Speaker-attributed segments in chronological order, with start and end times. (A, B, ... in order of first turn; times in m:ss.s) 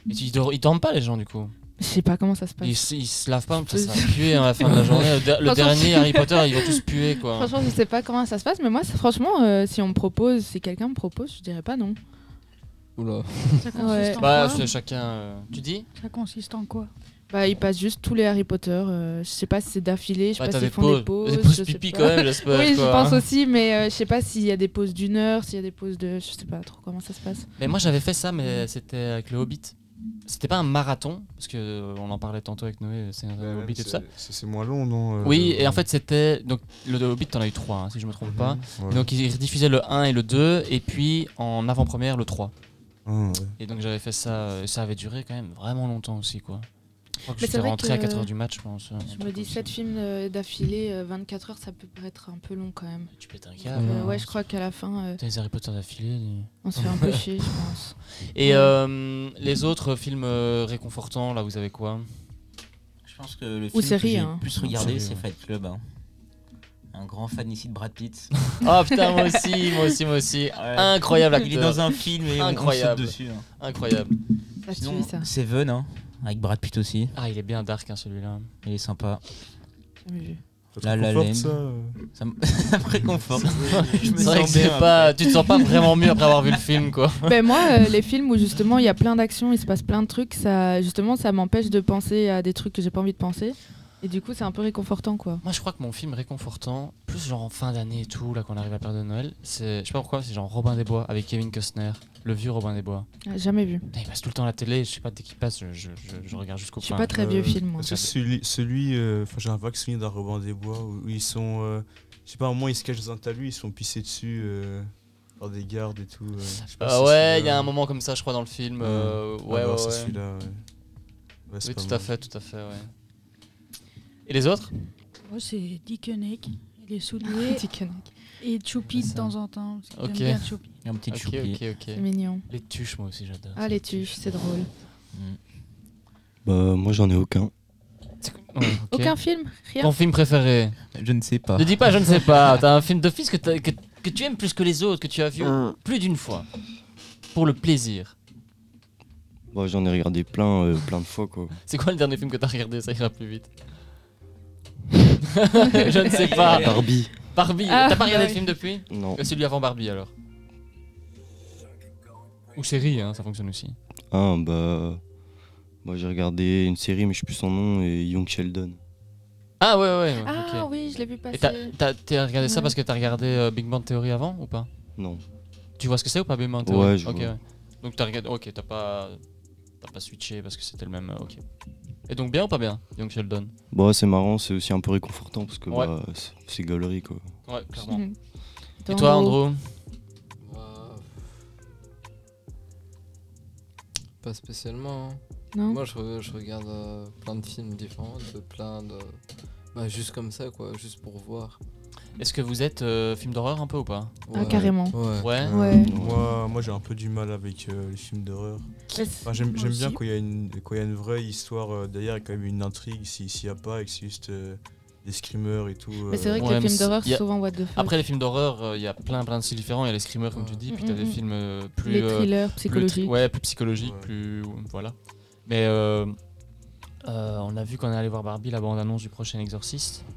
0:00.1-0:01.5 A
0:01.8-0:02.9 B
0:02.6-0:07.5 A
0:03.7-0:06.6 B
0:07.3-0:12.0 B
0:13.0-0:13.9 C
0:13.6-0:14.7 D
0:13.7-0:14.2 B
0:14.2-0:15.8 A
0:16.0-0:16.9 D
0:17.3-0:27.5 B
0:20.4-0:23.2 A
0:27.6-0:29.7 A
0:30.3-0:34.0 A
0:33.4-0:35.8 E
0:35.2-0:42.5 A
0:38.2-0:39.1 E
0:43.0-0:43.5 E
0:43.6-0:46.7 A
0:47.2-0:49.2 A
0:47.4-0:48.3 B
0:49.1-0:49.7 F
0:49.1-0:55.2 B
0:53.1-0:54.4 A
0:53.7-0:54.1 C
0:55.2-0:57.5 A
0:56.6-0:58.7 B
0:58.3-1:02.1 A
1:03.0-1:05.8 F
1:03.7-1:04.4 B
1:04.6-1:05.2 A
1:06.9-1:08.5 F
1:08.5-1:14.1 A
1:10.5-1:13.4 F
1:14.6-1:15.3 B
1:14.7-1:17.1 F
1:17.1-1:18.5 A
1:18.6-1:19.2 F
1:20.0-1:20.4 B
1:20.7-1:22.0 E
1:20.8-1:25.3 F
1:23.4-1:24.3 E
1:23.6-1:27.3 A
1:27.2-1:35.4 B
1:35.4-1:43.1 A
1:43.2-1:43.9 B
1:43.9-1:47.2 A
1:46.8-1:48.1 B
1:47.1-1:57.7 E
1:56.8-2:00.1 A
1:58.8-2:00.6 E
2:01.5-2:02.1 E
2:01.6-2:02.9 A
2:04.3-2:04.7 A
2:05.2-2:07.6 D
2:07.3-2:08.1 B
2:08.4-2:10.7 D
2:08.9-2:09.3 A
2:09.9-2:10.5 A
2:10.8-2:11.6 F
2:11.1-2:14.3 A
2:11.9-2:12.4 B
2:13.6-2:14.7 B
2:15.1-2:15.4 F
2:16.4-2:17.5 G
2:18.2-2:19.1 A
2:18.9-2:19.9 B
2:19.8-2:20.8 A
2:20.9-2:22.4 F
2:21.5-2:26.4 A
2:27.3-2:28.1 A
2:29.5-2:31.5 G
2:31.6-2:33.5 A
2:35.4-2:40.1 A
2:36.1-2:36.9 F
2:36.4-2:37.2 G
2:37.6-2:38.5 B
2:38.9-2:39.2 G
2:42.5-2:43.8 A
2:44.1-2:45.0 G
2:45.8-2:48.8 G
2:49.6-2:50.7 A
2:50.2-2:51.8 B
2:51.3-2:54.7 A
2:52.4-2:52.7 B
2:55.0-2:55.2 G
2:55.8-2:59.2 A
2:56.6-2:57.3 G
2:59.8-3:01.4 A
3:02.1-3:03.5 A
3:03.7-3:07.3 G
3:07.5-3:08.0 A
3:07.8-3:08.2 B
3:08.8-3:09.4 B
3:08.9-3:09.7 A
3:10.4-3:11.3 C
3:14.2-3:19.2 C
3:15.5-3:15.8 B
3:19.7-3:21.6 C
3:22.2-3:24.2 A
3:24.3-3:25.4 C
3:24.3-3:25.0 B
3:25.2-3:25.5 A
3:25.2-3:26.3 G
3:25.5-3:26.0 B
3:25.9-3:28.7 E
3:28.9-3:29.9 B
3:29.2-3:36.7 E
3:29.5-3:29.9 D
3:36.1-3:37.9 B
3:36.4-3:37.2 A
3:37.7-3:44.9 A
3:40.7-3:41.2 B
3:41.8-3:43.2 B
3:43.8-3:44.1 E
3:45.4-3:46.2 A
3:47.0-3:50.0 A